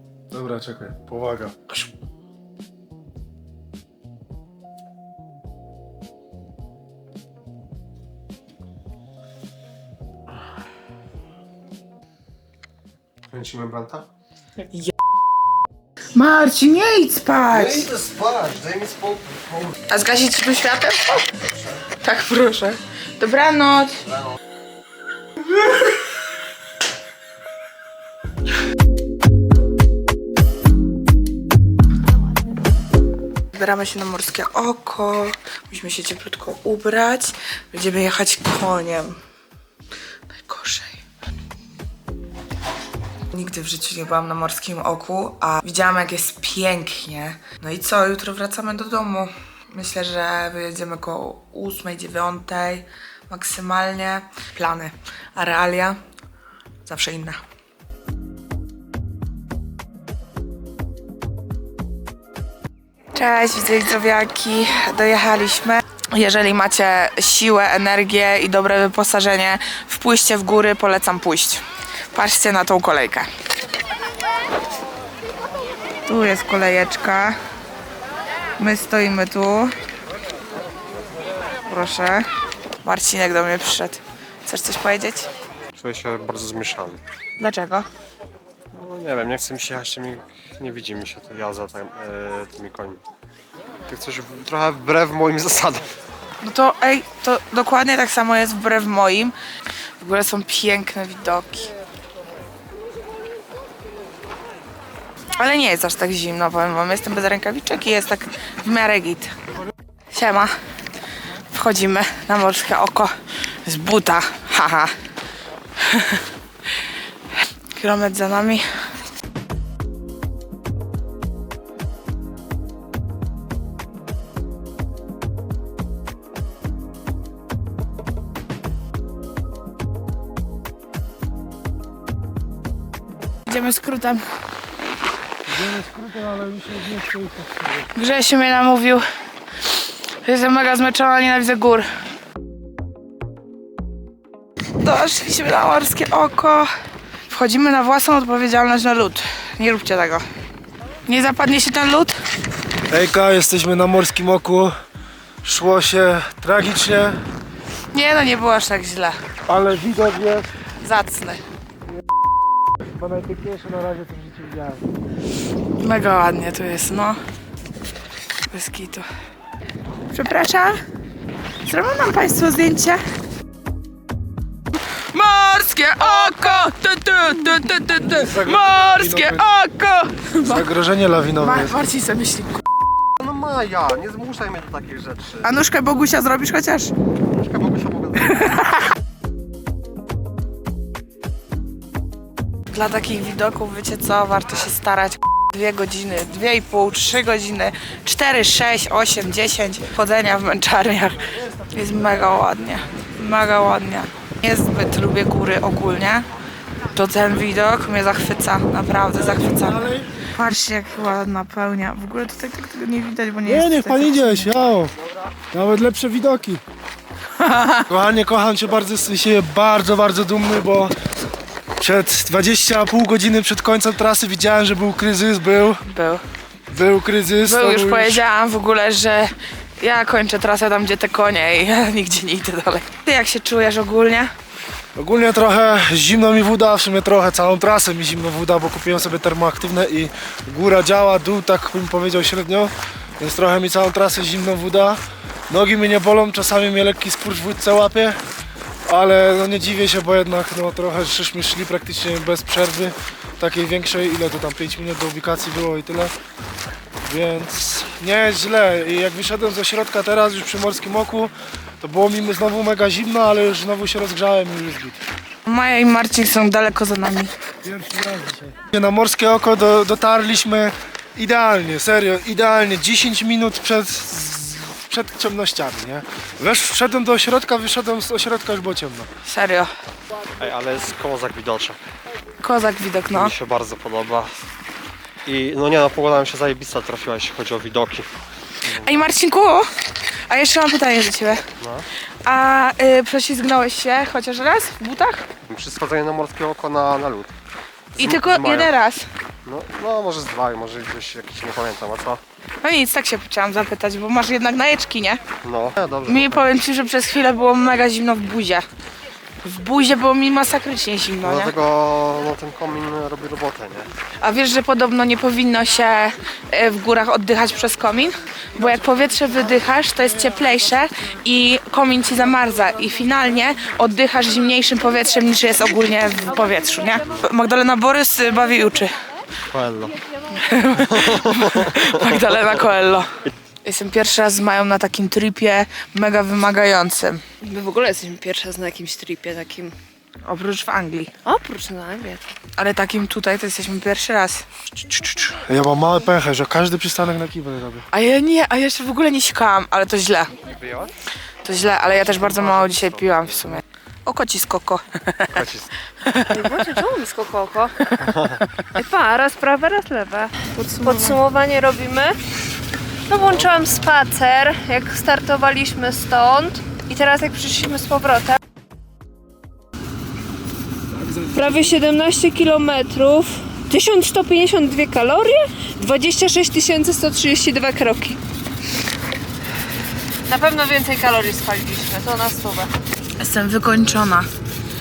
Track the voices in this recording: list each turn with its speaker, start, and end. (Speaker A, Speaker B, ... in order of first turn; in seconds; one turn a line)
Speaker A: 0.3-1.8
Speaker B: 13.3-14.1
Speaker C: 14.7-14.9
Speaker C: 16.1-17.9
Speaker B: 17.5-19.8
Speaker C: 19.9-21.3
Speaker C: 22.0-24.0
Speaker B: 24.1-24.4
Speaker C: 33.5-39.2
Speaker C: 40.3-41.0
Speaker C: 43.3-56.0
Speaker C: 56.9-57.4
Speaker C: 63.1-73.3
Speaker C: 76.1-77.4
Speaker C: 78.6-79.7
Speaker C: 81.7-82.3
Speaker C: 82.8-85.3
Speaker B: 85.8-87.0
Speaker C: 87.4-87.9
Speaker B: 88.7-93.0
Speaker B: 93.9-95.9
Speaker C: 96.4-99.3
Speaker C: 100.0-101.7
Speaker C: 105.3-109.3
Speaker C: 110.1-110.5
Speaker C: 111.5-114.9
Speaker C: 115.8-116.2
Speaker C: 117.8-118.6
Speaker C: 133.5-134.3
Speaker A: 135.5-137.9
Speaker C: 137.9-139.1
Speaker C: 140.2-141.9
Speaker C: 144.8-146.7
Speaker C: 147.3-150.2
Speaker C: 151.1-152.2
Speaker A: 152.9-154.8
Speaker A: 155.4-157.2
Speaker C: 157.9-159.2
Speaker A: 159.5-160.5
Speaker C: 160.8-161.4
Speaker A: 163.0-164.8
Speaker C: 165.8-167.2
Speaker C: 168.5-169.1
Speaker C: 170.1-170.8
Speaker C: 171.7-173.0
Speaker C: 175.1-180.7
Speaker A: 177.9-179.4
Speaker A: 180.4-181.8
Speaker C: 181.4-182.7
Speaker B: 183.2-185.6
Speaker C: 185.4-186.9
Speaker B: 187.3-188.6
Speaker C: 188.5-188.7
Speaker C: 192.7-206.3
Speaker C: 206.9-214.5
Speaker A: 209.1-210.2
Speaker A: 213.4-214.9
Speaker A: 215.5-216.6
Speaker C: 217.4-217.9
Speaker A: 217.9-220.9
Speaker A: 221.8-225.8
Speaker C: 225.9-226.2
Speaker A: 226.7-228.2
Speaker C: 227.4-234.3
Speaker A: 235.0-248.2
Speaker A: 248.9-256.1
Speaker A: 257.0-265.0
Speaker C: 265.5-267.3
Speaker A: 267.6-279.1
Speaker C: 279.2-279.7
Speaker B: 280.4-281.8
Speaker C: 282.4-283.3
Speaker B: 283.1-284.3
Speaker B: 285.2-288.1
Speaker B: 288.6-289.0
Speaker C: 288.8-289.7
Speaker C: 290.3-291.4
Speaker B: 291.6-291.9
Speaker C: 292.2-295.3
Speaker B: 295.5-297.3
Speaker B: 297.9-298.7
Speaker C: 298.0-299.1
Speaker B: 299.4-302.2
Speaker C: 302.6-305.2
Speaker B: 305.4-306.5
Speaker C: 306.1-308.6
Speaker C: 309.4-311.6
Speaker B: 311.2-313.9
Speaker C: 314.2-329.0
Speaker B: 329.5-330.0
Speaker C: 330.3-337.2
Speaker B: 330.8-332.5
Speaker D: 337.4-339.8
Speaker C: 340.2-341.1
Speaker D: 341.2-342.3
Speaker C: 342.6-344.5
Speaker A: 344.8-347.9
Speaker C: 347.9-350.3
Speaker B: 350.4-350.9
Speaker C: 351.4-355.2
Speaker B: 351.6-353.6
Speaker B: 355.3-355.7
Speaker C: 356.1-356.3
Speaker D: 356.3-357.9
Speaker B: 358.0-358.4
Speaker D: 358.7-362.2
Speaker C: 360.6-361.2
Speaker D: 363.1-368.4
Speaker A: 370.9-371.4
Speaker D: 371.3-378.2
Speaker D: 380.3-382.7
Speaker C: 383.2-384.3